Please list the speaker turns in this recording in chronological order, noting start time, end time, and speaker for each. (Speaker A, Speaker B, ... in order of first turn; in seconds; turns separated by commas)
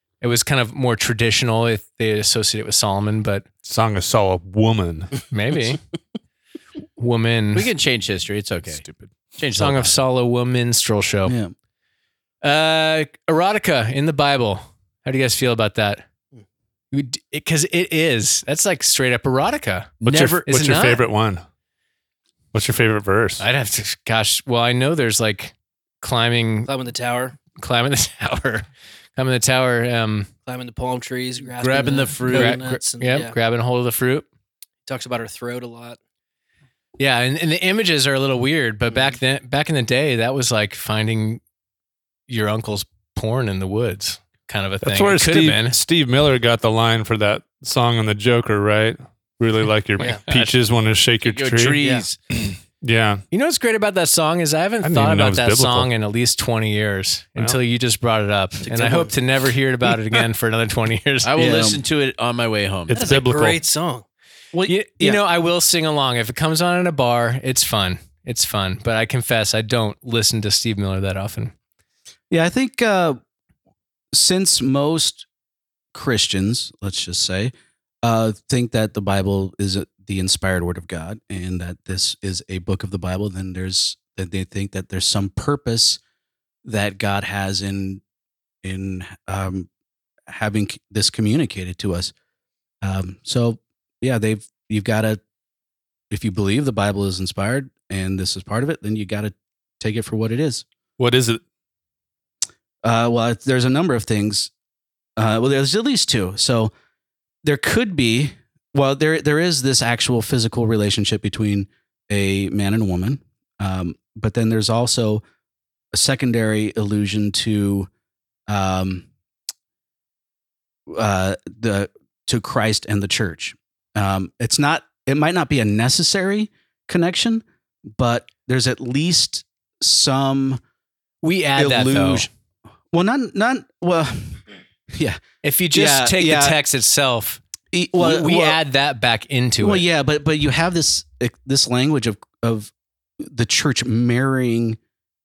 Speaker A: 0.2-3.5, Speaker B: 3.6-5.1, Speaker A: 5.3-5.8, Speaker A: 7.0-7.7, Speaker C: 7.5-8.8, Speaker B: 8.7-9.2, Speaker C: 9.4-10.0, Speaker A: 9.6-11.4, Speaker D: 11.2-11.5, Speaker A: 12.4-16.0, Speaker A: 16.9-19.9, Speaker B: 20.0-21.4, Speaker C: 20.0-20.8, Speaker A: 20.5-21.0, Speaker B: 22.5-23.4, Speaker A: 23.4-26.7, Speaker E: 26.7-27.4, Speaker A: 27.6-30.3, Speaker E: 30.5-33.3, Speaker C: 31.6-32.6, Speaker A: 32.3-34.3, Speaker E: 34.9-36.0, Speaker A: 37.0-41.4, Speaker E: 38.9-39.1, Speaker A: 42.3-45.8, Speaker B: 44.8-51.8, Speaker A: 50.0-50.5, Speaker C: 51.2-52.2, Speaker E: 51.8-52.1, Speaker B: 52.3-53.2, Speaker A: 53.3-61.3, Speaker B: 54.8-55.9, Speaker E: 58.6-59.1, Speaker C: 61.2-63.0, Speaker D: 61.4-61.8, Speaker B: 62.9-63.6, Speaker E: 62.9-64.0, Speaker D: 64.5-65.2, Speaker A: 64.7-71.5, Speaker D: 72.3-73.2, Speaker D: 74.1-75.2, Speaker D: 75.9-86.0, Speaker D: 86.6-88.0, Speaker D: 88.6-89.7, Speaker D: 90.3-92.1, Speaker D: 92.8-95.2, Speaker D: 96.1-100.7, Speaker B: 101.0-101.4, Speaker D: 102.8-104.5, Speaker D: 105.2-106.7, Speaker D: 107.4-115.2, Speaker D: 115.9-117.9, Speaker D: 118.5-119.1, Speaker D: 120.9-130.6, Speaker A: 131.2-132.3, Speaker D: 131.6-132.3, Speaker D: 132.9-134.4, Speaker D: 134.9-135.2, Speaker A: 135.4-137.4, Speaker D: 135.7-136.6, Speaker D: 137.7-138.6, Speaker A: 137.9-139.8, Speaker D: 139.6-144.8